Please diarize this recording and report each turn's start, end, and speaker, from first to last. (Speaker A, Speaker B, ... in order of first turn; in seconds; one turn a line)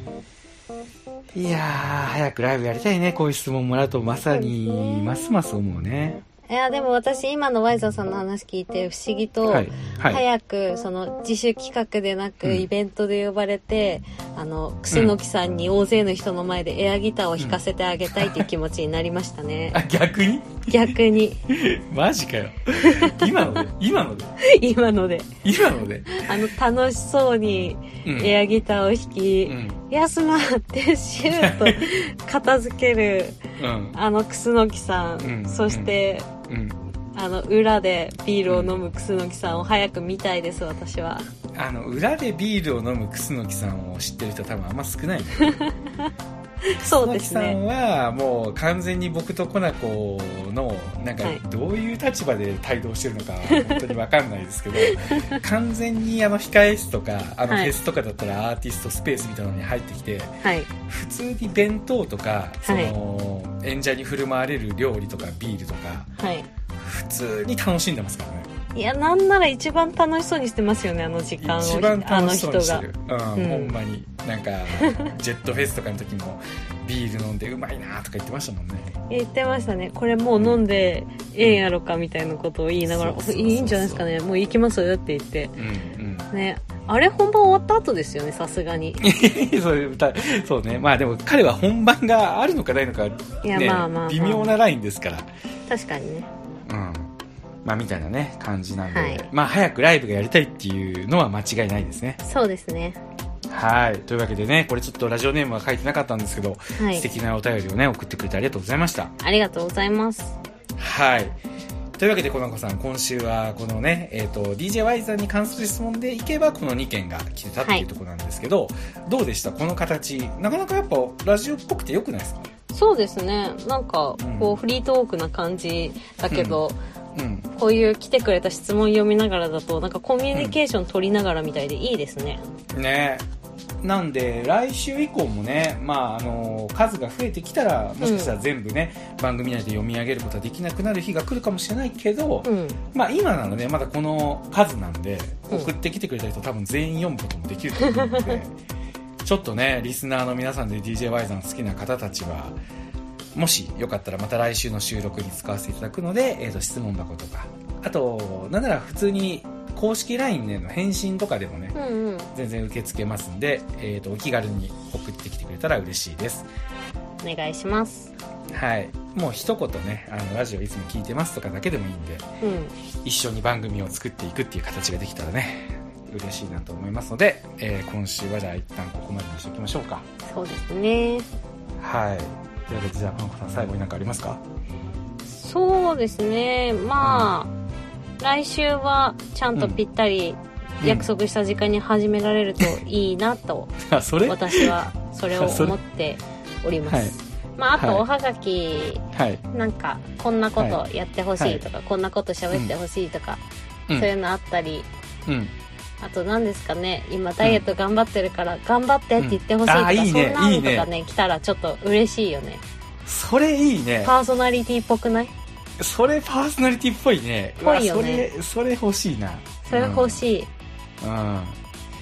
Speaker A: 1.3-6.2
Speaker B: 4.3-5.1
Speaker B: 6.5-19.8
Speaker A: 9.5-10.2
Speaker A: 18.2-18.5
Speaker A: 19.7-24.3
Speaker B: 20.7-21.4
Speaker B: 22.8-23.5
Speaker B: 24.4-25.3
Speaker A: 25.4-26.3
Speaker B: 26.1-33.4
Speaker A: 28.1-28.4
Speaker A: 29.5-29.8
Speaker A: 31.3-31.9
Speaker A: 33.6-34.0
Speaker B: 33.9-36.3
Speaker A: 35.2-36.0
Speaker A: 36.5-36.8
Speaker B: 37.1-41.3
Speaker A: 38.5-38.8
Speaker A: 41.5-45.6
Speaker B: 45.4-46.1
Speaker B: 46.7-47.6
Speaker A: 46.8-66.1
Speaker B: 53.5-53.8
Speaker B: 54.8-55.4
Speaker B: 57.5-57.7
Speaker B: 60.4-60.7
Speaker B: 62.7-63.0
Speaker B: 66.2-66.5
Speaker A: 66.8-68.5
Speaker B: 68.7-72.8
Speaker A: 71.4-78.9
Speaker B: 73.4-73.8
Speaker B: 74.8-75.1
Speaker B: 79.1-85.6
Speaker A: 81.4-81.7
Speaker A: 82.8-84.1
Speaker A: 85.6-86.3
Speaker B: 86.3-89.0
Speaker A: 89.0-95.3
Speaker B: 93.4-94.6
Speaker B: 95.7-96.3
Speaker A: 96.7-97.1
Speaker A: 97.7-102.2
Speaker B: 98.9-99.3
Speaker B: 102.2-103.0
Speaker A: 103.5-109.1
Speaker B: 106.8-107.1
Speaker B: 109.2-110.4
Speaker A: 110.8-111.4
Speaker A: 112.0-122.5
Speaker B: 122.7-126.8
Speaker A: 124.2-124.6
Speaker A: 126.3-126.6
Speaker A: 127.2-127.5
Speaker B: 127.6-132.4
Speaker A: 132.7-133.2
Speaker A: 133.8-148.6
Speaker B: 138.0-138.3
Speaker B: 142.4-142.8
Speaker B: 147.8-148.4
Speaker A: 149.2-152.6
Speaker A: 153.3-161.8
Speaker B: 161.8-162.3
Speaker A: 162.3-166.5
Speaker B: 167.2-168.1
Speaker A: 168.5-172.3
Speaker B: 172.4-172.7
Speaker A: 173.0-180.1
Speaker B: 180.3-181.3
Speaker A: 181.8-184.4
Speaker B: 185.2-187.5
Speaker A: 187.0-187.3
Speaker B: 188.2-193.7
Speaker A: 189.6-189.8
Speaker A: 190.8-191.1
Speaker A: 193.8-194.7
Speaker B: 194.2-203.4
Speaker A: 195.3-195.8
Speaker A: 196.9-197.2
Speaker A: 197.8-198.1
Speaker A: 199.1-199.4
Speaker B: 203.9-204.9
Speaker A: 205.3-205.5
Speaker B: 206.0-212.6
Speaker A: 209.2-210.9
Speaker A: 213.1-214.2
Speaker B: 214.0-215.3
Speaker A: 215.8-220.2
Speaker B: 217.6-218.3
Speaker B: 219.7-220.5
Speaker A: 221.0-221.6